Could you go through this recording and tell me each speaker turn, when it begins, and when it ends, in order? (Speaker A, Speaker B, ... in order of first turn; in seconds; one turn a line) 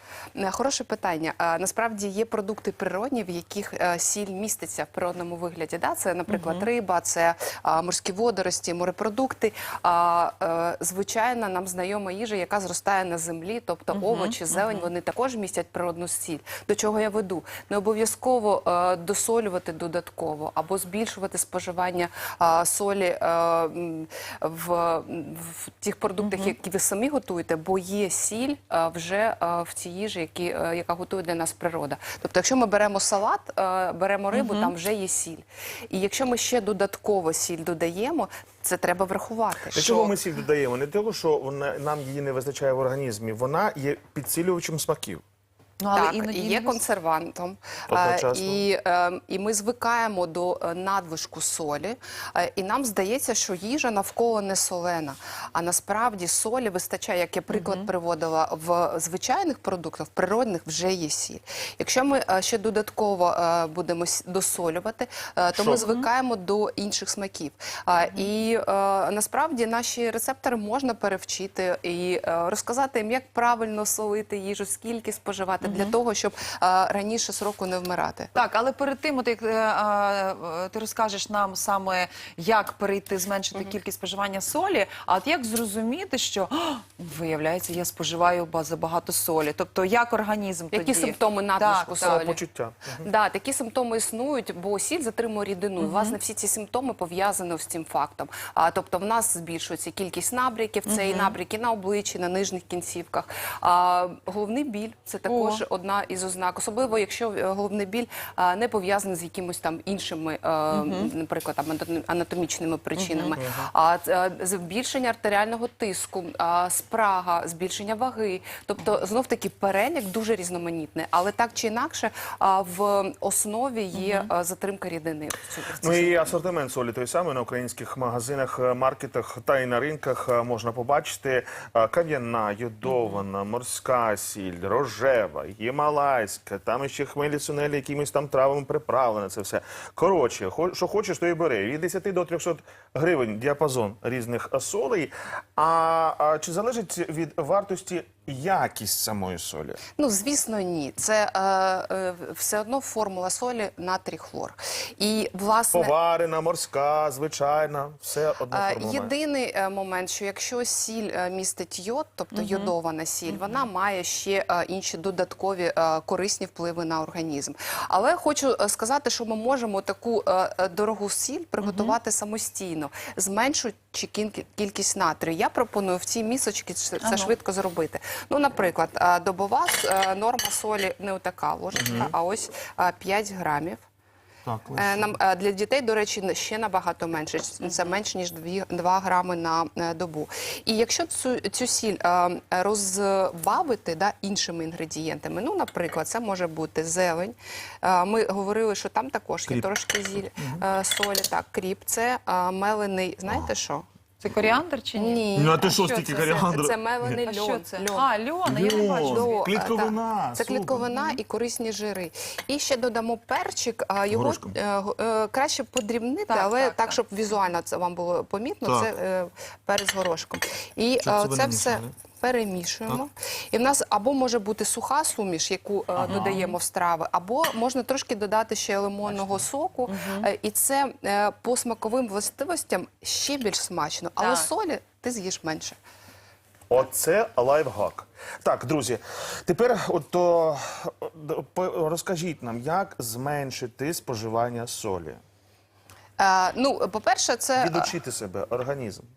Speaker A: 0.3-39.9
Speaker B: 6.3-6.7
Speaker B: 13.9-14.9
Speaker B: 26.2-26.6
Speaker B: 34.3-34.7
Speaker C: 39.7-45.2
Speaker B: 39.8-40.1
Speaker B: 45.8-46.8
Speaker A: 45.9-78.3
Speaker C: 47.9-48.7
Speaker B: 57.5-57.9
Speaker C: 65.5-65.9
Speaker B: 65.8-66.1
Speaker B: 75.6-75.9
Speaker B: 78.3-92.3
Speaker A: 90.7-92.4
Speaker C: 92.0-93.1
Speaker A: 93.0-126.4
Speaker B: 95.8-96.2
Speaker B: 100.9-101.3
Speaker B: 105.3-105.6
Speaker B: 110.7-111.1
Speaker B: 113.0-113.4
Speaker C: 113.4-113.7
Speaker B: 123.9-124.3
Speaker C: 125.8-149.8
Speaker B: 132.9-133.2
Speaker A: 150.0-155.9
Speaker C: 155.7-159.1
Speaker A: 158.5-183.8
Speaker B: 162.3-162.7
Speaker B: 163.3-163.7
Speaker B: 171.6-172.0
Speaker B: 177.0-177.3
Speaker C: 181.7-182.1
Speaker C: 184.5-185.2
Speaker A: 184.7-203.9
Speaker B: 187.6-187.9
Speaker B: 204.2-205.2
Speaker A: 204.9-208.1
Speaker C: 205.3-207.2
Speaker B: 207.2-209.8
Speaker C: 208.4-210.9
Speaker A: 208.7-235.8
Speaker C: 214.1-214.6
Speaker B: 216.3-217.0
Speaker C: 221.0-221.9
Speaker C: 226.0-226.4
Speaker B: 226.0-226.6
Speaker B: 229.9-230.3
Speaker B: 234.2-234.5
Speaker C: 236.7-245.2
Speaker A: 246.2-247.9
Speaker C: 247.6-249.1